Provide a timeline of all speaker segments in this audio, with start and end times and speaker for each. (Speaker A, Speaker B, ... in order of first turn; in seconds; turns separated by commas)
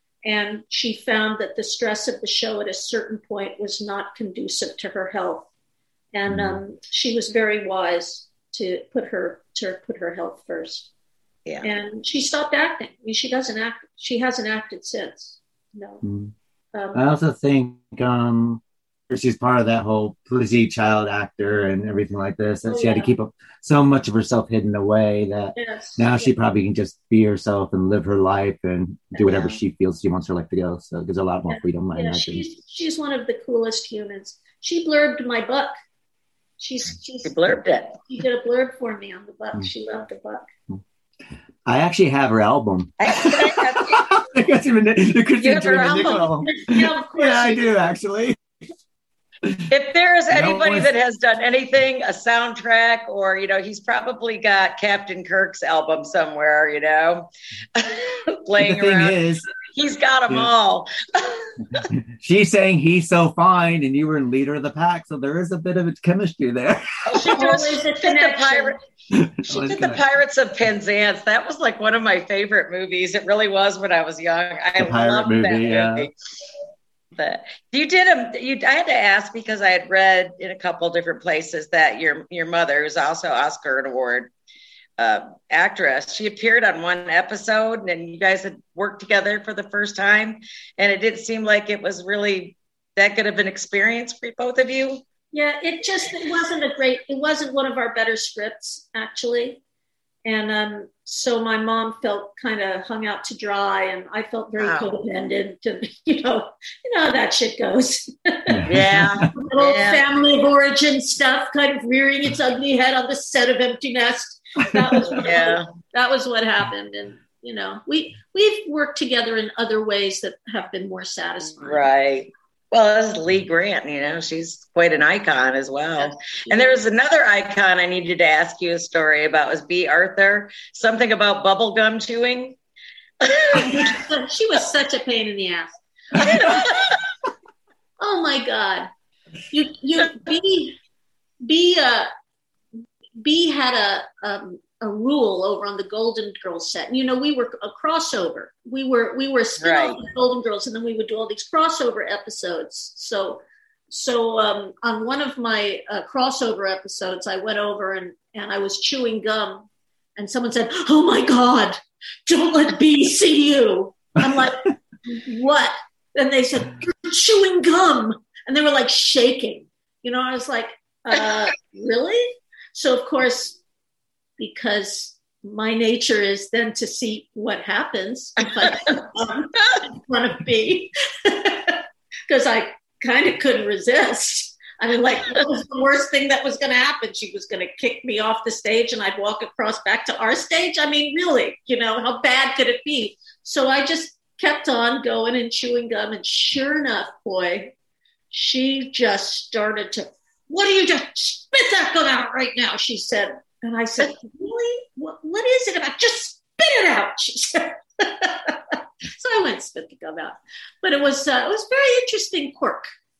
Speaker A: 0.2-5.5, Speaker A: 6.1-10.9, Speaker B: 6.3-6.6, Speaker A: 11.6-16.0, Speaker B: 16.0-16.3, Speaker A: 16.8-17.0, Speaker B: 16.9-32.4, Speaker A: 22.7-23.1, Speaker A: 25.6-26.3, Speaker C: 29.3-29.5, Speaker A: 31.5-35.7, Speaker A: 36.6-37.4, Speaker C: 37.2-38.0, Speaker A: 38.1-40.5, Speaker B: 41.7-48.4, Speaker C: 43.0-44.1, Speaker C: 45.4-46.3, Speaker A: 45.7-47.7, Speaker C: 49.7-59.2, Speaker B: 50.3-50.9, Speaker B: 58.6-59.5, Speaker C: 59.7-61.9, Speaker B: 61.9-67.3, Speaker C: 67.1-68.8, Speaker A: 67.3-68.8, Speaker B: 69.1-70.0, Speaker C: 69.5-76.1, Speaker B: 74.8-76.1, Speaker C: 77.2-84.3, Speaker C: 85.0-95.0, Speaker A: 95.3-99.6, Speaker A: 100.2-108.6, Speaker C: 104.6-104.9, Speaker B: 108.5-109.3, Speaker C: 108.7-110.0, Speaker A: 109.3-121.9, Speaker B: 114.8-115.1, Speaker C: 115.1-115.7, Speaker C: 121.6-132.6, Speaker A: 126.0-126.8, Speaker C: 133.2-134.0, Speaker A: 133.5-136.7, Speaker C: 136.2-136.9, Speaker A: 138.0-138.9, Speaker A: 139.5-140.8, Speaker A: 141.4-142.1, Speaker A: 143.2-173.6, Speaker C: 149.6-150.0, Speaker A: 174.4-197.7, Speaker A: 198.3-212.8